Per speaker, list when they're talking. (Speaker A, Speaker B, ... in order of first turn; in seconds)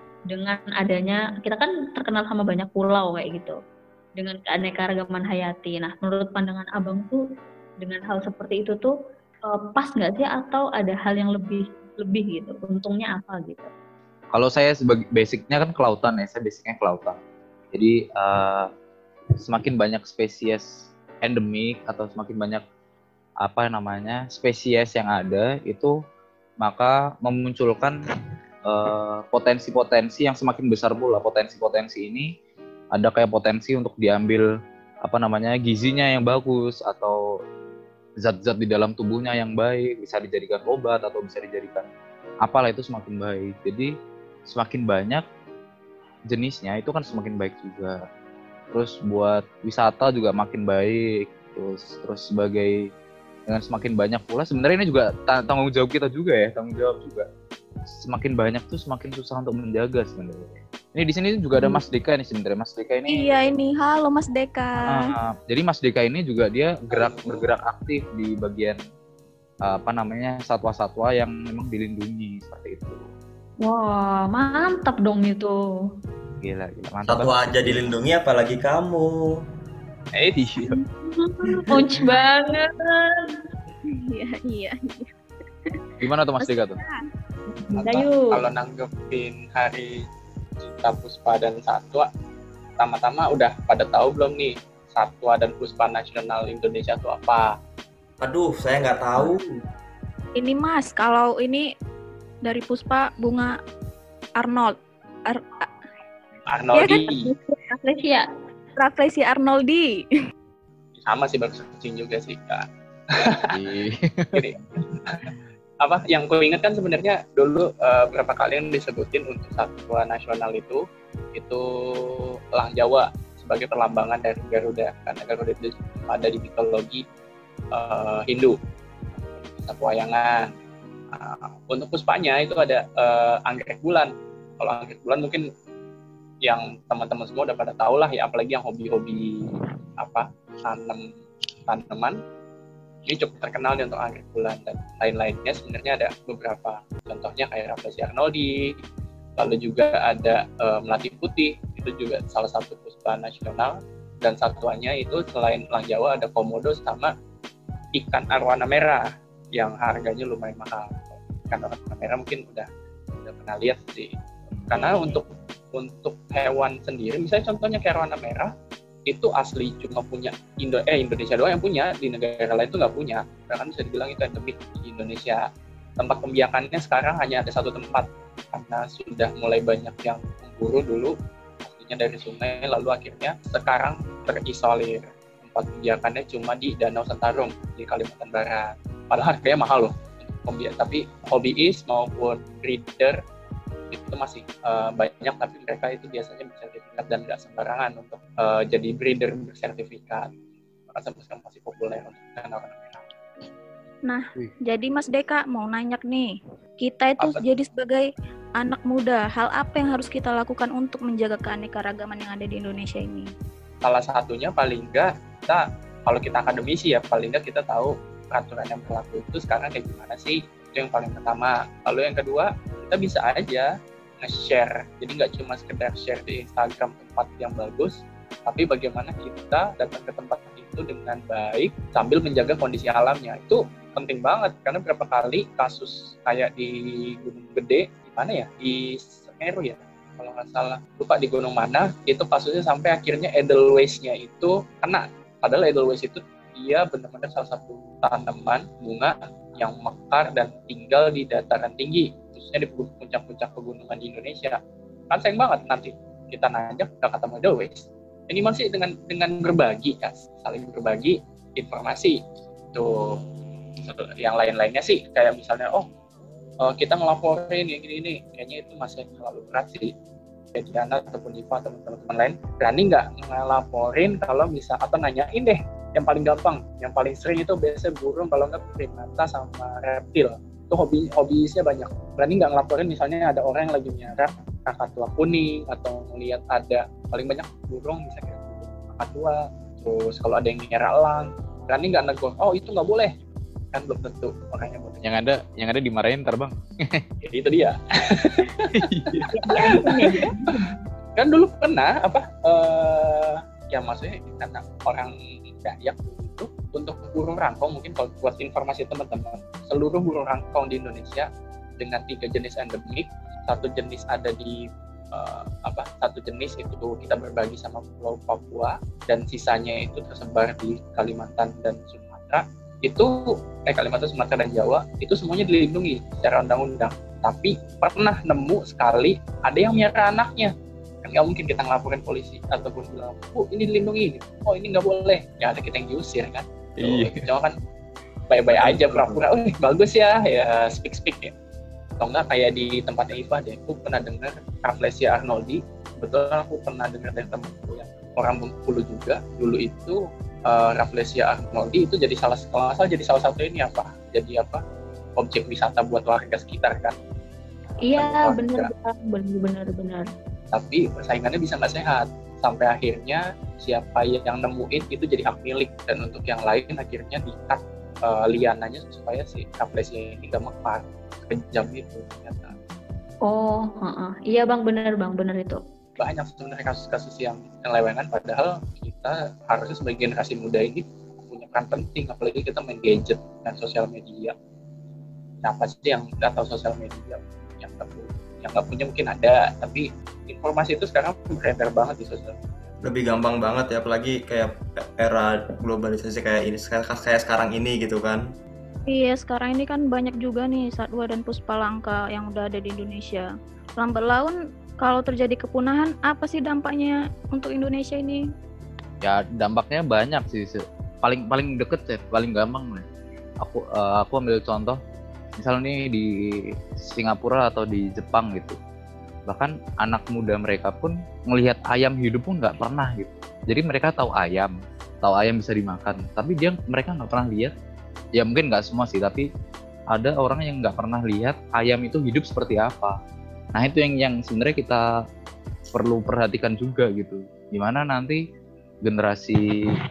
Speaker A: 0.3-3.5, 4.2-7.2, 7.8-8.9, 9.5-13.7, 73.6-75.5, 80.7-83.3, 87.5-88.3, 107.0-108.2, 299.3-300.7, 357.8-360.1, 373.2-375.6
Speaker B: 14.3-17.2, 17.7-18.7, 19.4-20.7, 21.2-22.6, 23.4-25.9, 26.6-28.0, 28.6-32.3, 32.9-34.5, 35.0-37.2, 38.2-41.9, 42.4-43.9, 44.5-45.2, 46.3-48.0, 48.7-52.8, 53.5-57.3, 57.9-63.6, 64.8-68.8, 69.6-73.1, 76.4-77.9, 80.3-80.8, 86.0-86.8, 113.5-114.6, 164.5-165.2, 295.0-297.0, 298.7-299.9, 336.8-337.2, 409.0-412.9, 413.4-414.8, 415.4-418.6, 419.3-427.5, 428.1-429.3, 429.9-433.0, 433.5-434.8, 435.7-438.2, 438.8-439.5
Speaker C: 63.1-65.1, 83.9-85.1, 86.4-87.0, 100.3-101.7, 102.4-103.5, 104.4-104.7, 105.3-105.7, 106.7-107.0, 108.8-109.9, 204.1-213.3, 398.9-408.2
Speaker D: 66.9-67.5, 80.1-80.7, 87.8-90.0, 90.6-92.1, 92.8-97.5, 106.5-107.3, 111.0-113.5, 114.3-115.3, 115.8-120.8, 121.3-127.0, 127.7-128.6, 129.1-130.5, 131.1-135.5, 136.4-139.4, 140.0-141.1, 141.7-142.2, 143.1-148.7, 149.4-157.1, 157.9-162.7, 163.2-164.1, 164.7-168.5, 169.1-175.4, 176.0-193.2, 193.9-200.3, 200.9-203.1, 213.8-223.7, 224.2-254.6, 255.1-262.2, 262.7-263.1, 263.8-265.9, 266.6-269.9, 270.5-293.1, 293.7-295.0, 297.3-300.5, 301.1-311.3, 311.8-330.5, 331.0-337.5, 338.3-341.3, 342.0-354.6, 355.2-356.9, 357.9-358.7, 360.5-372.6, 376.0-384.3, 385.4-392.4
Speaker E: 77.1-79.2, 98.2-99.5, 338.6-339.1, 392.8-398.3